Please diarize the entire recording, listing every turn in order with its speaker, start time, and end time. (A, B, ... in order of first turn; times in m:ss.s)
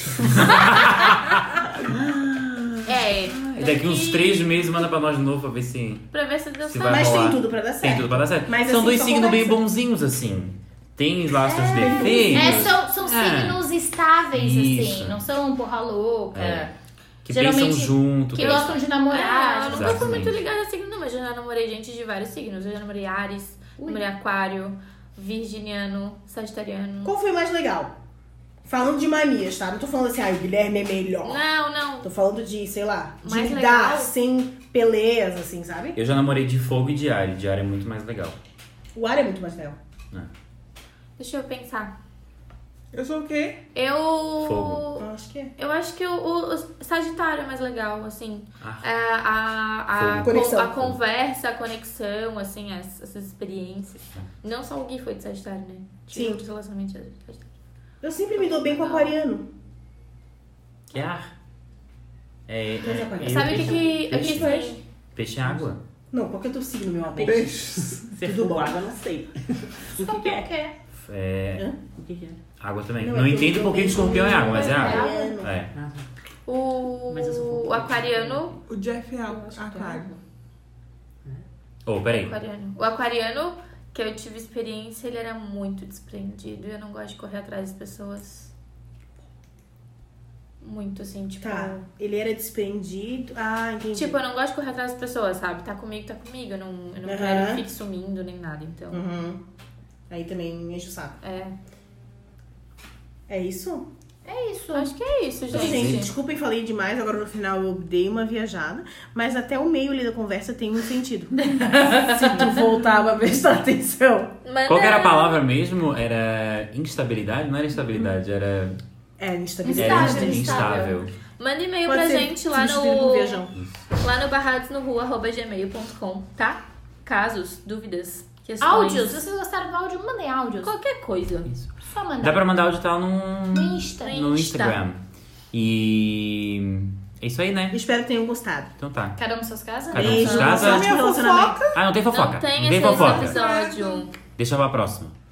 0:00.2-0:06.1 A
0:00.3-0:00.9 B
0:02.9-0:04.6 C
0:06.1-0:07.3 C
0:06.6-0:13.6 A
0:06.9-0:09.6 B
0:11.4-0:16.7 D
0:11.7-0:12.7 B
0:14.3-0:15.2 A
0:16.3-0:16.7 A
0:17.2-0:18.8 A
0:17.3-0:20.3 D
0:18.4-0:27.1 C
0:19.7-0:20.4 A
0:27.0-0:27.9 B
0:28.6-0:31.4 B
0:31.2-0:32.1 C
0:32.0-0:36.0 B
0:33.2-0:34.1 C
0:36.0-0:38.4 A
0:38.9-0:39.8 B
0:41.2-0:41.9 C
0:42.9-0:43.6 E
0:43.7-0:45.1 C
0:44.4-0:44.8 A
0:45.0-0:45.5 B
0:45.6-0:57.5 C
0:48.6-0:48.9 A
0:50.0-0:50.9 A
0:50.2-0:50.9 B
0:56.1-0:56.4 B
0:58.0-0:59.5 B
0:58.4-0:59.2 C
1:00.9-1:01.3 A
1:02.5-1:04.6 A
1:02.8-1:04.7 B
1:03.3-1:04.8 C
1:03.6-1:03.8 F
1:05.2-1:05.8 A
1:06.1-1:08.8 B
1:07.1-1:10.5 F
1:07.2-1:08.1 E
1:10.0-1:10.7 D
1:11.0-1:11.7 A
1:12.0-1:12.4 F
1:12.6-1:15.7 A
1:13.0-1:15.6 B
1:14.4-1:15.3 C
1:14.7-1:15.3 D
1:15.7-1:16.1 F
1:16.5-1:18.5 C
1:17.1-1:18.6 F
1:18.7-1:20.1 E
1:19.3-1:20.2 B
1:21.9-1:22.3 A
1:22.1-1:28.5 C
1:30.6-1:31.8 C
1:31.4-1:34.2 B
1:33.9-1:39.0 C
1:37.0-1:37.6 B
1:38.9-1:39.4 B
1:40.1-1:41.2 B
1:41.2-1:41.6 C
1:43.3-1:43.9 B
1:44.2-1:44.9 D
1:44.7-1:46.1 C
1:45.5-1:46.0 A
1:45.5-1:54.4 B
1:51.4-1:52.6 D
1:54.4-1:55.4 C
1:54.7-1:58.8 A
1:59.2-2:00.7 B
1:59.6-2:00.9 D
1:59.8-2:01.1 A
2:00.4-2:03.4 C
2:01.9-2:03.5 B
2:04.0-2:09.2 C
2:08.6-2:10.7 D
2:10.6-2:11.5 C
2:11.5-2:15.0 A
2:11.8-2:12.4 D
2:13.5-2:14.2 D
2:14.0-2:14.8 C
2:15.5-2:17.8 A
2:17.7-2:18.7 B
2:18.8-2:19.2 A
2:19.2-2:20.6 D
2:19.9-2:20.9 A
2:19.9-2:21.6 B
2:20.2-2:20.6 C
2:20.3-2:21.8 E
2:21.7-2:23.4 A
2:22.1-2:24.2 C
2:22.8-2:24.1 E
2:24.2-2:25.1 A